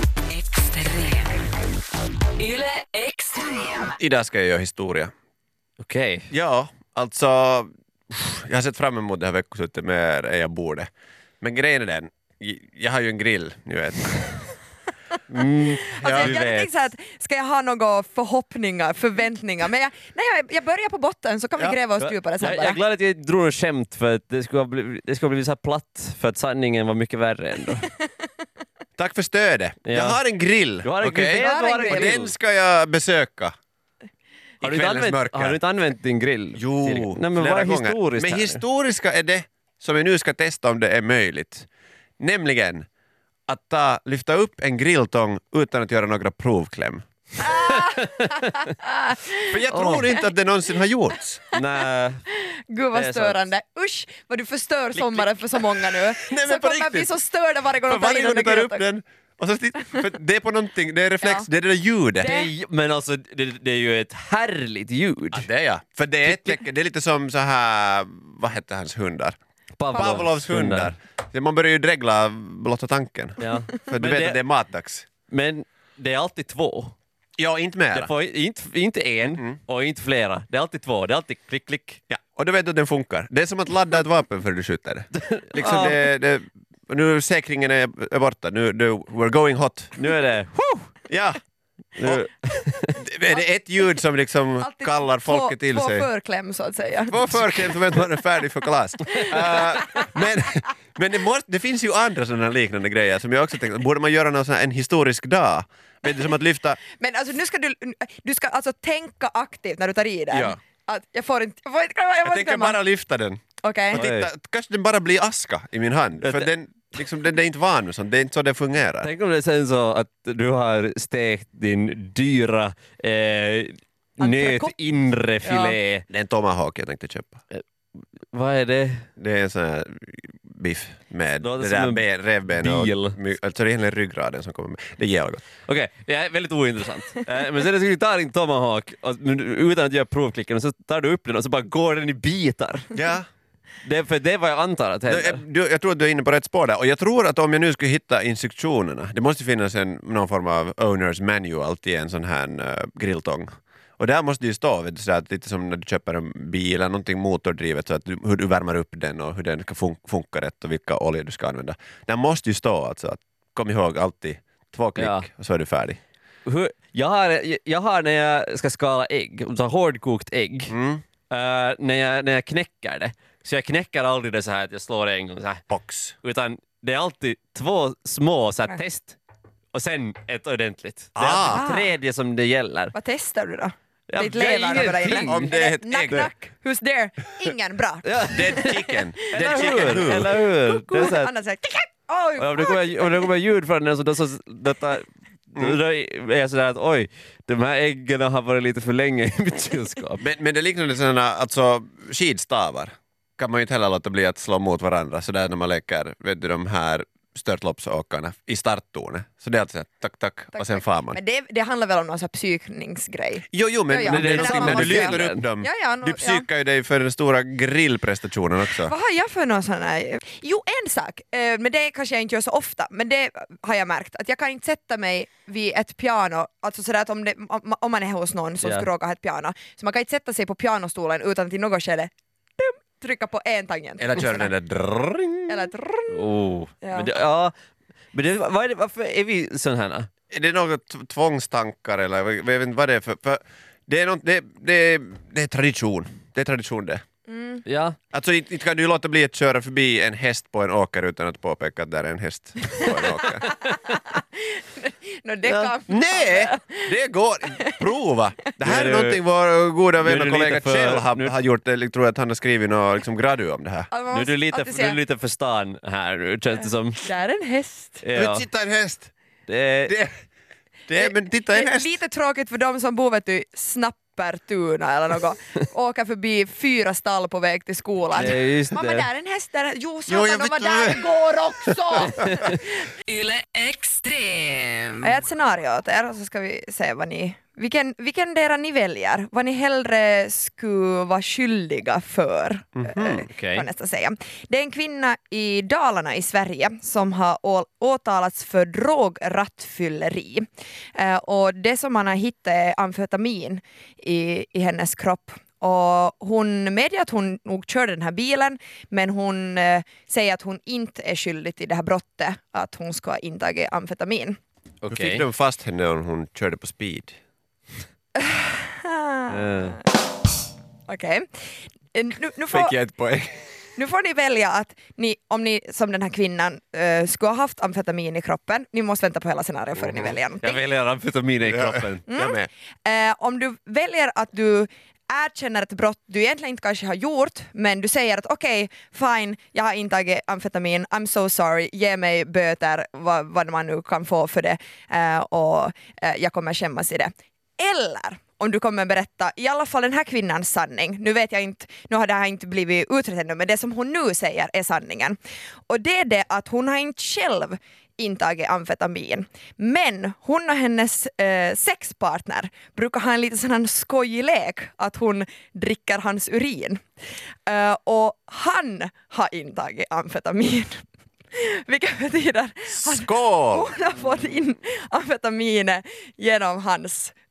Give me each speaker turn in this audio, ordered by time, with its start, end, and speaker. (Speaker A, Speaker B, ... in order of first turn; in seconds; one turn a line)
Speaker A: 0.3-1.6
Speaker A: 2.4-4.0
Speaker B: 4.0-5.1
Speaker C: 5.8-6.3
Speaker B: 6.3-14.4
Speaker C: 15.3-16.7
Speaker D: 15.9-22.8
Speaker B: 16.0-16.3
Speaker C: 22.0-27.9
Speaker B: 29.0-33.5
Speaker C: 29.9-30.2
Speaker C: 30.8-32.3
Speaker D: 31.4-32.2
Speaker C: 34.6-38.6
Speaker B: 34.6-35.6
Speaker B: 36.5-41.7
Speaker B: 42.2-42.9
Speaker B: 43.5-47.4
Speaker D: 47.4-49.5
Speaker C: 47.7-48.4
Speaker B: 49.5-51.4
Speaker C: 49.7-50.0
Speaker C: 51.5-52.2
Speaker D: 52.3-58.9
Speaker C: 52.9-53.5
Speaker C: 55.0-55.9
Speaker B: 56.2-57.1
Speaker B: 57.9-62.3
Speaker D: 62.2-62.5
Speaker C: 62.2-65.5
Speaker B: 65.3-69.4
Speaker C: 66.2-66.5
Speaker C: 69.8-70.9
Speaker B: 69.9-75.1
Speaker D: 69.9-70.2
Speaker C: 73.4-74.4
Speaker C: 75.3-76.9
Speaker B: 77.4-78.1
Speaker C: 77.9-82.0
Speaker B: 79.3-79.6
Speaker B: 82.1-89.9
Speaker C: 85.2-86.0
Speaker C: 90.0-90.9
Speaker B: 91.1-91.4
Speaker C: 92.0-93.0
Speaker B: 92.9-96.1
Speaker D: 94.6-97.8
Speaker B: 97.1-106.8
Speaker D: 99.1-100.1
Speaker D: 106.9-112.8
Speaker B: 110.3-110.6
Speaker B: 112.2-113.4
Speaker D: 113.6-114.0
Speaker B: 113.9-119.1
Speaker C: 113.9-114.3
Speaker C: 116.2-116.5
Speaker C: 119.0-126.0
Speaker D: 124.2-124.7
Speaker D: 125.4-125.8
Speaker B: 126.1-127.4
Speaker C: 128.3-129.1
Speaker B: 129.2-135.4
Speaker C: 131.4-133.2
Speaker C: 135.7-142.9
Speaker B: 142.9-143.2
Speaker C: 143.8-145.4
Speaker B: 145.1-166.0
Speaker C: 165.0-165.2
Speaker C: 166.4-170.7
Speaker B: 170.7-171.0
Speaker C: 171.3-175.6
Speaker B: 175.7-176.1
Speaker C: 176.2-179.2
Speaker C: 179.7-182.9
Speaker B: 181.2-181.7
Speaker D: 181.4-181.9
Speaker D: 182.9-193.3
Speaker C: 184.1-185.5
Speaker B: 185.0-186.3
Speaker C: 188.0-191.3
Speaker B: 188.3-190.4
Speaker C: 192.4-200.2
Speaker B: 200.2-211.2
Speaker D: 210.5-216.4
Speaker B: 213.5-218.9
Speaker C: 214.0-215.4
Speaker D: 218.8-234.5
Speaker C: 228.6-228.9
Speaker B: 234.0-235.7
Speaker D: 235.5-236.2
Speaker C: 236.1-237.5
Speaker D: 236.8-237.1
Speaker C: 238.1-240.1
Speaker B: 240.3-247.0
Speaker D: 247.3-247.6
Speaker C: 247.7-248.0
Speaker B: 248.1-253.5
Speaker D: 252.8-256.9
Speaker C: 255.4-255.7
Speaker B: 255.9-263.9
Speaker D: 257.5-257.8
Speaker C: 258.6-259.2
Speaker C: 260.0-261.3
Speaker D: 263.9-265.0
Speaker C: 264.1-267.0
Speaker D: 267.0-268.1
Speaker C: 268.0-268.4
Speaker B: 268.1-269.1
Speaker C: 269.5-270.0
Speaker B: 269.9-270.1
Speaker B: 270.9-271.9
Speaker D: 270.9-282.6
Speaker C: 278.1-279.1
Speaker B: 280.1-282.5
Speaker A: 283.0-285.1
Speaker D: 285.0-314.4
Speaker B: 292.8-293.2
Speaker C: 293.3-293.6
Speaker C: 314.8-315.2
Speaker B: 314.9-317.2
Speaker D: 318.1-319.8
Speaker C: 319.3-319.8
Speaker D: 320.9-322.7
Speaker B: 322.5-323.4
Speaker D: 323.8-330.6
Speaker C: 330.4-332.0
Speaker B: 331.5-332.5
Speaker D: 332.1-366.8
Speaker D: 367.5-377.1
Speaker B: 372.7-373.8